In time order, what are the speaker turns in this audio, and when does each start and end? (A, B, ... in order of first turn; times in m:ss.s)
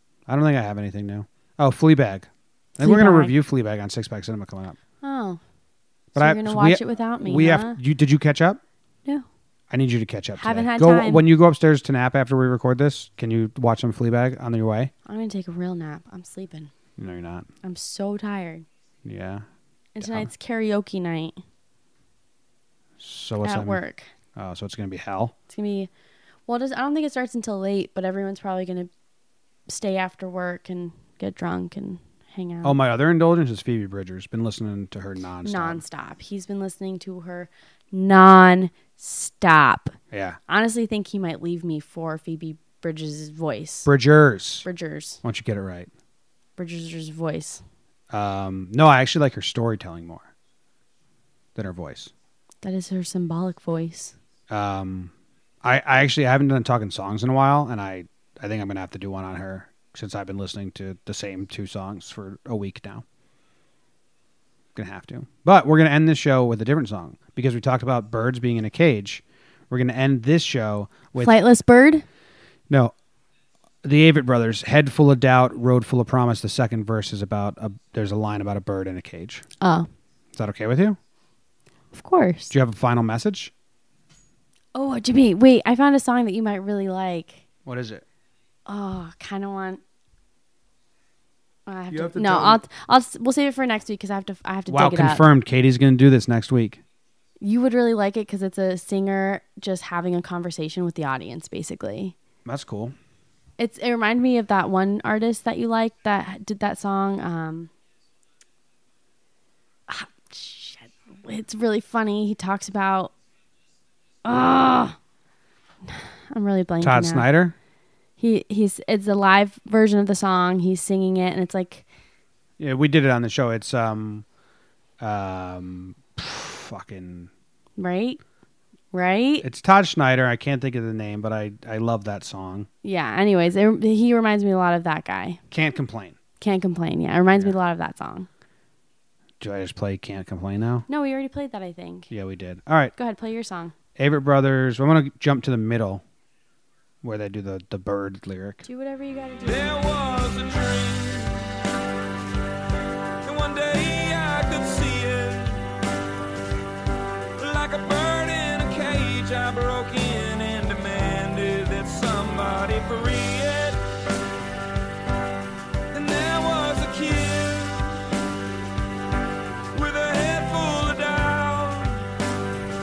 0:00.3-0:04.8 A
0:02.8-0:03.3 B
0:05.0-0:05.4 B
0:06.1-0:07.8 B
0:06.2-0:08.6 A
0:09.7-0:14.9 A
0:10.4-0:11.2 B
0:15.0-0:16.7 B
0:17.0-0:17.5 A
0:17.6-0:18.6 B
0:19.0-0:19.4 A
0:19.9-0:21.4 B
0:20.0-0:20.3 A
0:23.0-0:23.8 A
0:23.4-0:24.1 B
0:24.4-0:25.3 A
0:25.5-0:25.9 B
0:26.5-0:28.9 B
0:29.7-0:32.8 B
0:32.6-0:35.8 A
0:35.4-0:39.9 B
0:40.1-0:40.4 A
0:40.5-0:43.9 B
0:43.8-0:44.7 A
0:44.6-0:45.2 B
0:45.2-0:45.9 A
0:46.6-0:47.6 B
0:48.1-0:50.3 A
0:51.6-0:52.1 A
0:52.6-0:54.1 B
0:54.5-0:55.1 A
0:55.6-1:03.0 A
1:04.7-1:11.4 A
1:11.2-1:12.0 B
1:13.8-1:19.4 A
1:19.6-1:19.9 B
1:20.4-1:21.0 A
1:21.9-1:22.5 B
1:22.5-1:23.5 A
1:24.7-1:27.4 B
1:27.6-1:28.0 A
1:28.6-1:29.8 B
1:31.6-1:35.2 B
1:31.9-1:32.6 A
1:34.7-1:36.8 A
1:37.4-1:42.2 B
1:42.4-1:42.9 A
1:43.6-1:47.7 B
1:49.9-1:53.1 B
1:54.2-1:55.0 B
1:55.8-1:57.3 B
1:56.8-1:57.5 A
1:58.2-2:01.8 B
2:02.6-2:04.2 A
2:05.0-2:07.3 A
2:07.8-2:08.2 B
2:08.9-2:09.4 B
2:09.4-2:12.7 A
2:12.8-2:15.4 B
2:15.5-2:16.2 A
2:16.4-2:18.3 B
2:19.4-2:20.8 A
2:20.9-2:22.1 B
2:22.1-2:22.9 A
2:23.0-2:23.7 B
2:24.0-2:26.0 A
2:27.0-2:28.6 A
2:28.6-2:29.8 B
2:29.4-2:31.4 C
2:33.2-2:35.6 C
2:37.4-2:43.8 C
2:45.9-2:47.9 C
2:49.7-2:52.0 C